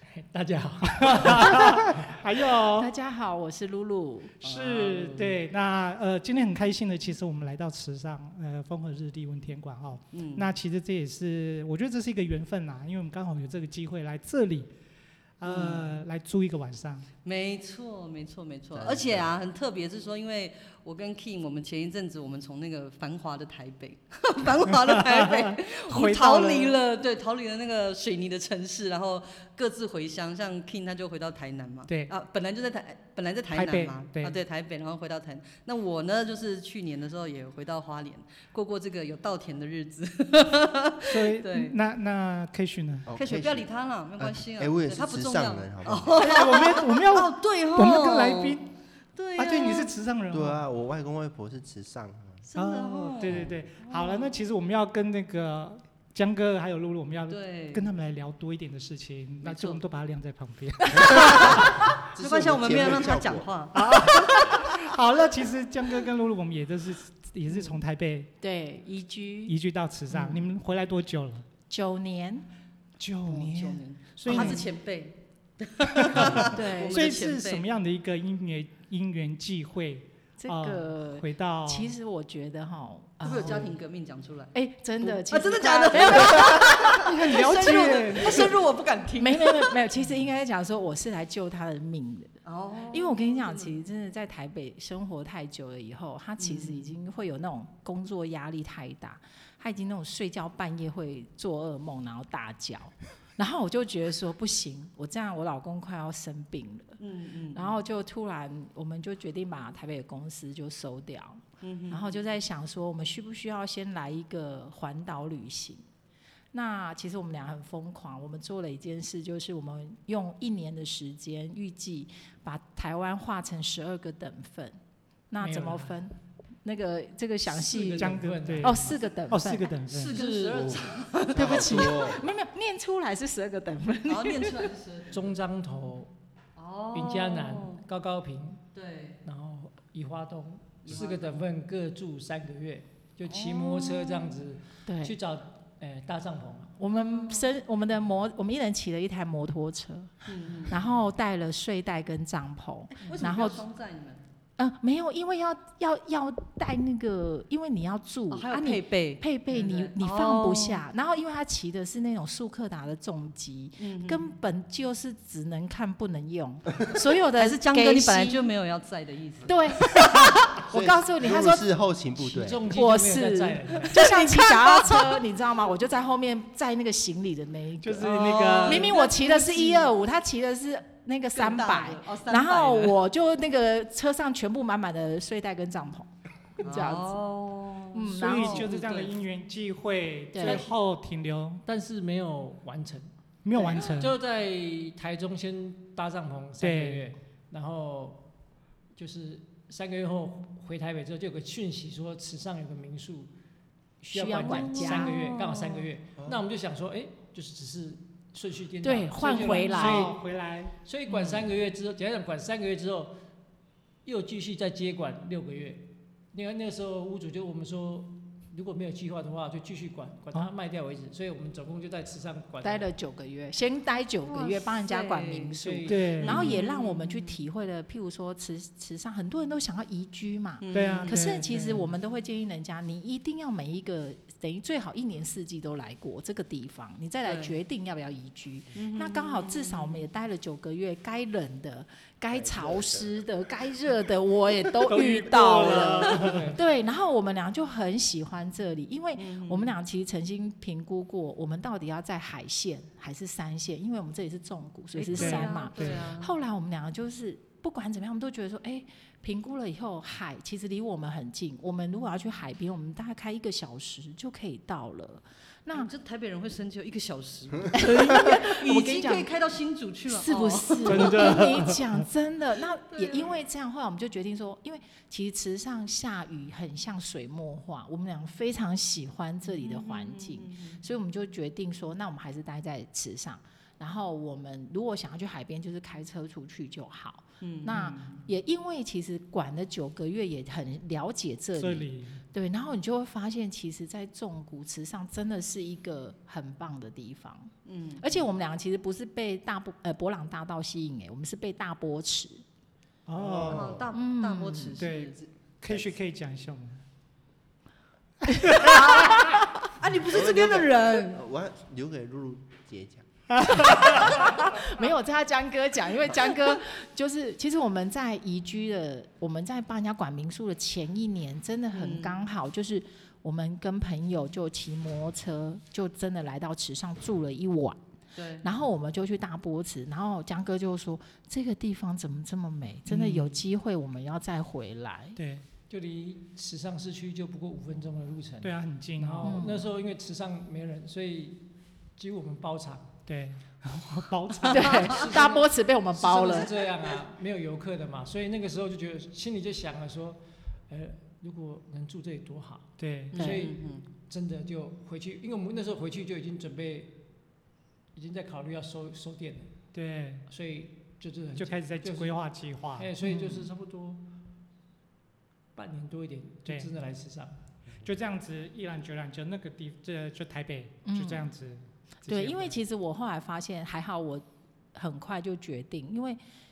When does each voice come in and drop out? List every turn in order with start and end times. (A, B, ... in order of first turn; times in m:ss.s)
0:00.1-0:02.1 A
0:00.9-0:02.9 B
0:02.7-0:04.4 C
0:04.4-0:05.4 D
0:04.4-0:14.7 B
0:10.1-0:10.5 D
0:15.4-0:17.1 B
0:15.4-0:15.9 D
0:17.2-0:41.8 D
0:18.7-0:19.3 E
0:24.7-0:26.8 B
0:33.5-0:34.4 B
0:41.1-0:43.1 B
0:43.1-0:46.2 E
0:43.2-0:48.6 D
0:46.2-0:48.7 B
0:49.2-0:49.9 D
0:49.4-0:50.6 B
0:50.3-0:52.5 E
0:52.5-0:54.3 D
0:52.6-1:01.7 B
0:53.3-0:53.6 E
0:57.3-0:57.9 D
0:59.4-0:59.8 D
1:01.0-1:01.6 E
1:01.2-1:04.7 D
1:02.2-1:03.5 E
1:03.7-1:08.3 B
1:08.4-1:09.6 C
1:09.5-1:11.5 B
1:10.1-1:10.4 C
1:11.7-1:12.5 C
1:13.0-1:14.7 B
1:13.3-1:17.6 D
1:14.3-1:14.6 C
1:15.9-1:21.9 B
1:16.3-1:17.0 C
1:20.4-1:23.8 C
1:23.2-1:29.8 D
1:24.5-1:26.9 C
1:26.4-1:28.5 B
1:29.2-1:32.4 C
1:32.4-1:33.8 D
1:32.9-1:47.0 C
1:36.4-1:36.9 D
1:47.0-1:47.8 D
1:47.5-1:55.8 C
1:51.6-1:52.2 D
1:56.5-2:04.8 C
2:05.3-2:09.7 C
2:05.4-2:06.0 A
2:07.5-2:08.8 A
2:08.0-2:10.2 B
2:09.9-2:11.9 D
2:10.1-2:11.0 A
2:11.3-2:12.2 E
2:11.3-2:14.7 C
2:14.1-2:15.4 D
2:15.1-2:16.1 A
2:16.6-2:17.8 D
2:16.9-2:18.6 A
2:18.7-2:19.2 D
2:19.2-2:26.7 A
2:20.8-2:21.5 D
2:23.3-2:24.4 D
2:24.9-2:25.2 C
2:26.8-2:33.6 C
2:26.9-2:27.5 D
2:30.3-2:30.8 D
2:33.0-2:34.2 D
2:34.6-2:48.5 C
2:38.3-2:40.8 D
2:43.8-2:44.2 D
2:47.4-2:49.9 D
2:49.5-2:51.6 C
2:50.7-2:52.7 E
2:52.2-2:54.0 A
2:52.7-3:07.2 C
2:53.9-2:55.1 D
2:57.8-2:59.0 B
2:58.0-2:59.9 D
3:01.4-3:03.0 D
3:06.6-3:09.2 D
3:07.9-3:08.7 C
3:08.1-3:11.6 B
3:10.3-3:10.6 C
3:10.4-3:10.7 A
3:11.7-3:18.2 A
3:13.4-3:14.2 B
3:16.6-3:17.1 B
3:19.0-3:23.3 A
3:24.0-3:30.2 A
3:24.1-3:25.2 C
3:24.3-3:25.9 D
3:28.8-3:30.1 C
3:29.6-3:30.8 B
3:30.8-3:33.2 A
3:31.1-3:31.4 D
3:34.0-3:42.9 A
3:42.6-4:25.9 C
3:44.3-3:45.6 D
3:45.6-3:46.5 A
3:45.9-3:46.6 B
3:46.2-3:47.4 D
3:50.6-3:51.3 D
3:50.7-3:51.6 B
3:51.5-3:51.9 A
3:57.2-3:57.6 D
3:58.8-4:00.0 D
4:02.3-4:03.2 E
4:04.8-4:06.6 B
4:06.1-4:06.6 A
4:09.2-4:09.7 D
4:15.0-4:16.3 D
4:15.1-4:16.1 B
4:25.7-4:31.4 D
4:27.7-4:29.3 C
4:30.1-5:02.4 C
4:30.8-4:32.0 B
4:32.9-4:33.4 D
4:39.6-4:40.8 D
4:47.4-4:48.3 D
4:51.6-4:52.2 B
4:57.7-4:58.2 D
5:03.1-5:03.8 B
5:03.2-5:03.9 E
5:03.5-5:05.3 D
5:03.9-5:04.8 C
5:04.8-5:06.8 B
5:08.3-5:09.2 B
5:08.6-5:11.2 D
5:10.0-5:13.0 E
5:13.4-5:14.2 B
5:13.7-5:27.8 C
5:21.7-5:22.2 D
5:28.2-5:28.5 D
5:28.4-5:35.2 C
5:32.9-5:33.4 B
5:35.2-5:35.5 B
5:35.7-5:43.0 A
5:38.4-5:39.5 B
5:39.2-5:39.7 C
5:43.1-5:45.1 B
5:44.5-5:46.7 C
5:44.9-5:57.0 A
5:52.8-5:53.3 B
5:53.1-5:53.8 D
5:53.2-5:53.5 C
5:57.9-5:59.5 A
5:59.7-6:00.3 B
6:00.3-6:02.2 A
6:01.4-6:02.9 B
6:02.7-6:04.1 A
6:03.0-6:03.5 C
6:05.5-6:07.4 A
6:06.5-6:06.7 B
6:07.8-6:12.6 B
6:10.8-6:11.3 C
6:12.1-6:16.2 C